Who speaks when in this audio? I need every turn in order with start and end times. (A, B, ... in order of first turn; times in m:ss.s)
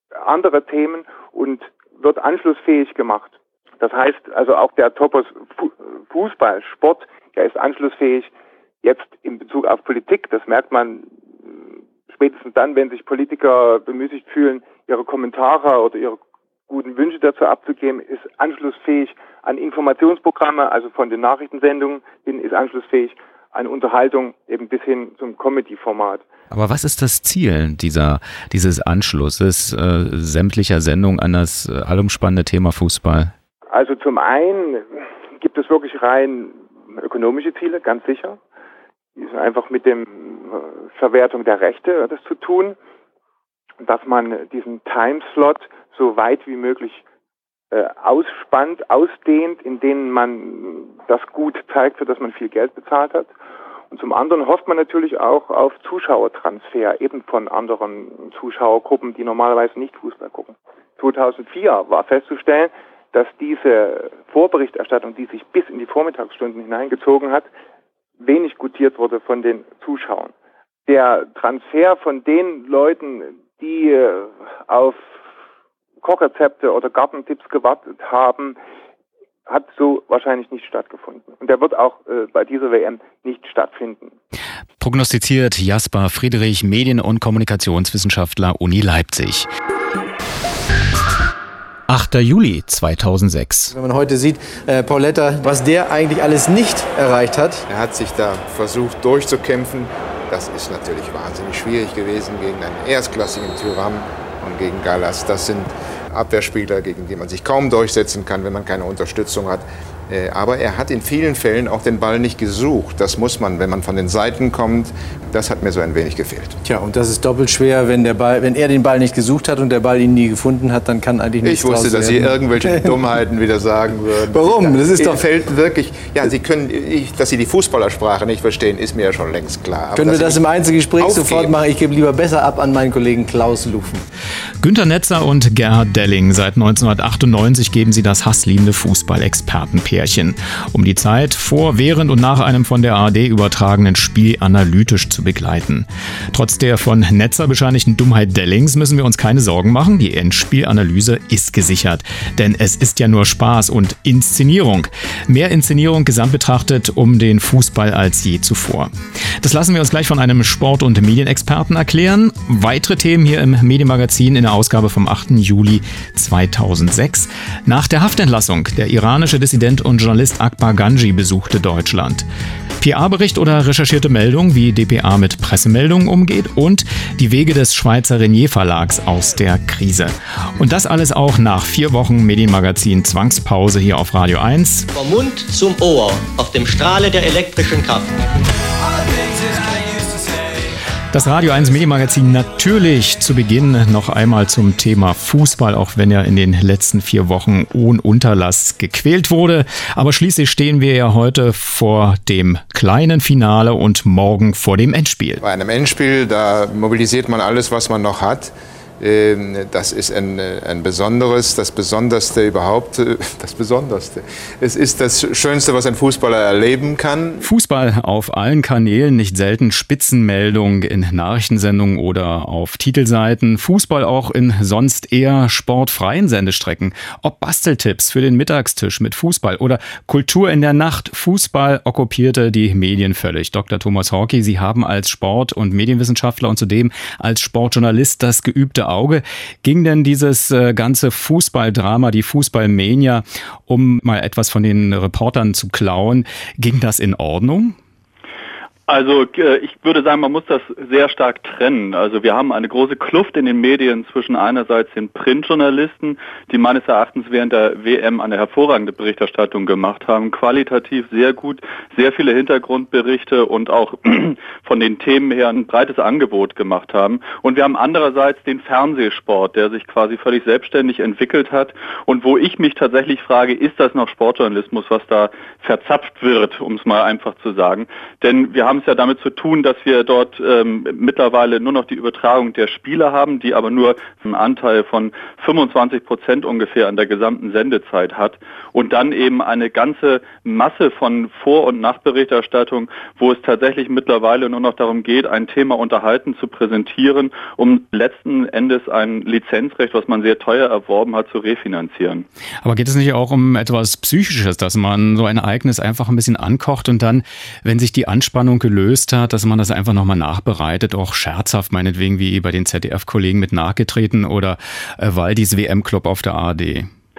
0:00.2-0:26.2 A
0:26.5-0:33.3 B
0:33.7-0:38.4 A
0:39.2-0:42.8 A
0:43.8-0:47.0 A
0:47.7-0:53.3 A
0:53.9-1:07.5 A
1:08.2-1:10.3 A
1:10.9-1:15.1 A
1:16.0-1:18.6 A
1:19.5-1:24.1 A
1:24.8-1:29.5 B
1:31.9-1:33.7 B
1:33.7-1:37.6 C
1:37.7-1:56.6 D
1:56.6-2:02.9 C
2:01.4-2:10.4 D
2:04.3-2:05.2 C
2:09.9-2:14.0 C
2:11.0-2:11.5 D
2:14.6-2:52.3 B
2:52.8-3:04.9 B
3:04.9-3:08.1 E
3:11.1-3:25.4 B
3:25.4-3:37.4 D
3:37.4-4:07.8 B
4:08.9-5:02.3 F
5:02.6-5:16.9 B